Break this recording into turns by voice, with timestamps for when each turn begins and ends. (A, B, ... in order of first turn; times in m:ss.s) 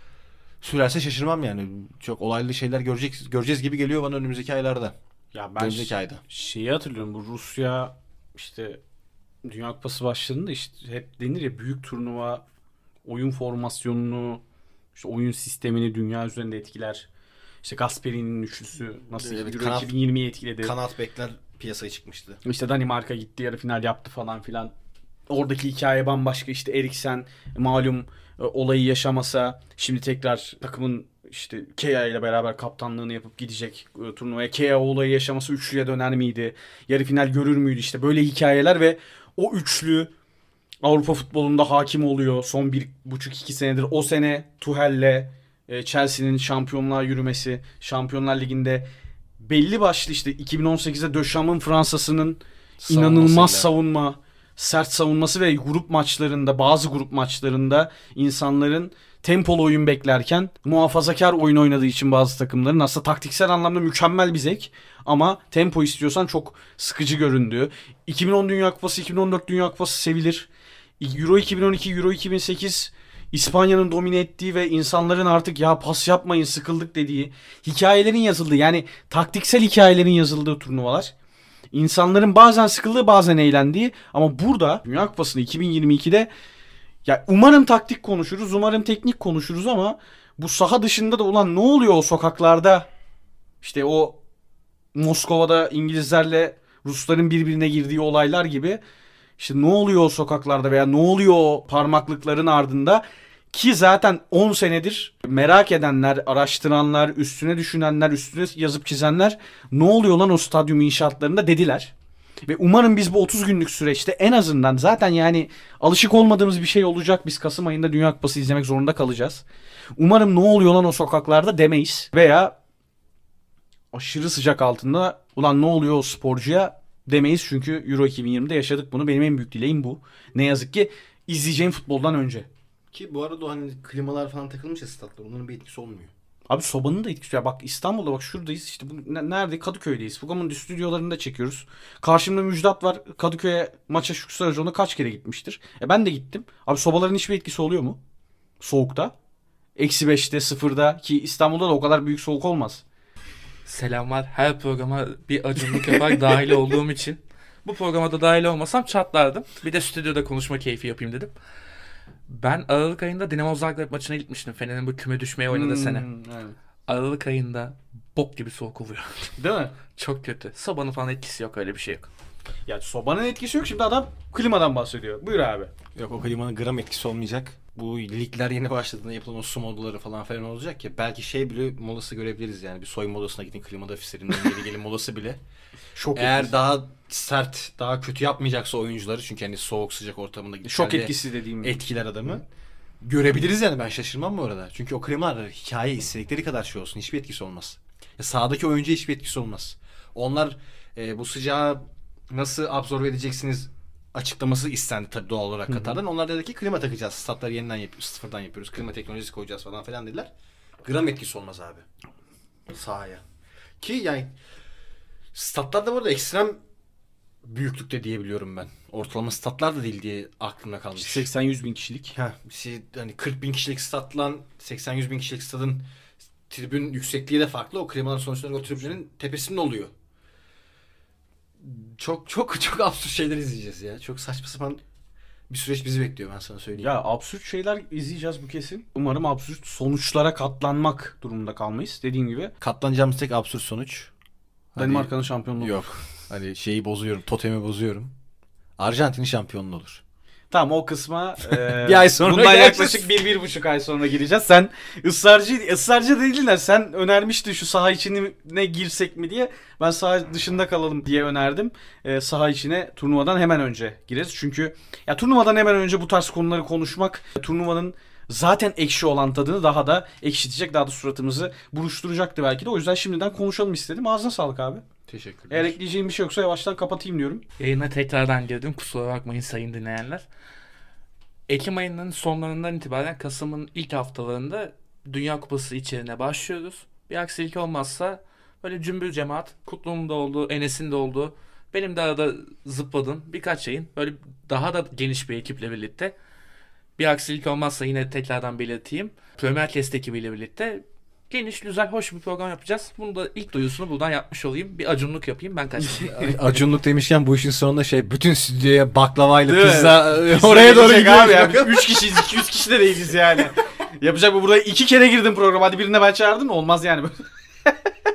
0:00.6-0:04.9 A
0:05.3-0:08.8 B
0:05.6-0:06.2 A
0:09.4-0:12.4 B
0:13.0-0:14.4 B
0:14.9-0:17.1 B
0:17.6-0:20.7 B
0:19.2-0:19.9 A
0:20.6-0:22.4 A
0:22.4-0:24.7 B
0:25.3-0:40.1 B
0:40.8-0:48.9 B
0:49.4-1:10.5 B
0:52.8-0:53.7 A
1:11.0-1:21.1 B
1:21.7-1:26.3 B
1:27.0-1:32.9 B
1:33.6-1:34.2 B
1:34.9-1:38.8 B
1:39.4-1:51.9 B
1:52.5-1:59.4 B
2:00.0-2:02.6 B
2:03.9-2:12.5 B
2:12.9-2:16.1 A
2:16.5-2:28.0 B
2:28.6-2:29.1 B
2:29.8-2:32.8 B
2:33.6-2:41.3 C
2:42.3-2:46.1 C
2:45.5-2:46.5 B
2:46.9-2:52.1 C
2:49.4-2:49.8 B
2:52.7-2:55.7 B
2:55.9-3:05.4 A
3:05.9-3:06.5 B
3:06.1-3:12.4 A
3:10.6-3:11.7 B
3:13.0-3:30.3 A
3:30.8-3:31.8 A
3:32.7-3:33.2 A
3:33.8-3:34.3 A
3:35.3-3:36.6 A
3:37.4-3:41.3 A
3:41.0-3:42.2 B
3:42.1-3:45.8 A
3:46.5-3:49.9 A
3:51.6-3:54.8 A
3:55.5-3:56.9 A
3:56.8-4:02.5 B
4:02.6-4:04.1 A
4:04.7-4:08.1 A
4:04.8-4:05.8 B
4:08.8-4:10.0 A
4:10.5-4:34.8 B
4:11.5-4:13.1 A
4:35.1-4:35.8 A
4:35.5-4:37.4 B
4:37.6-4:40.2 C
4:41.5-4:56.1 C
4:57.0-5:06.5 C
5:06.0-5:12.5 A
5:09.4-5:17.7 B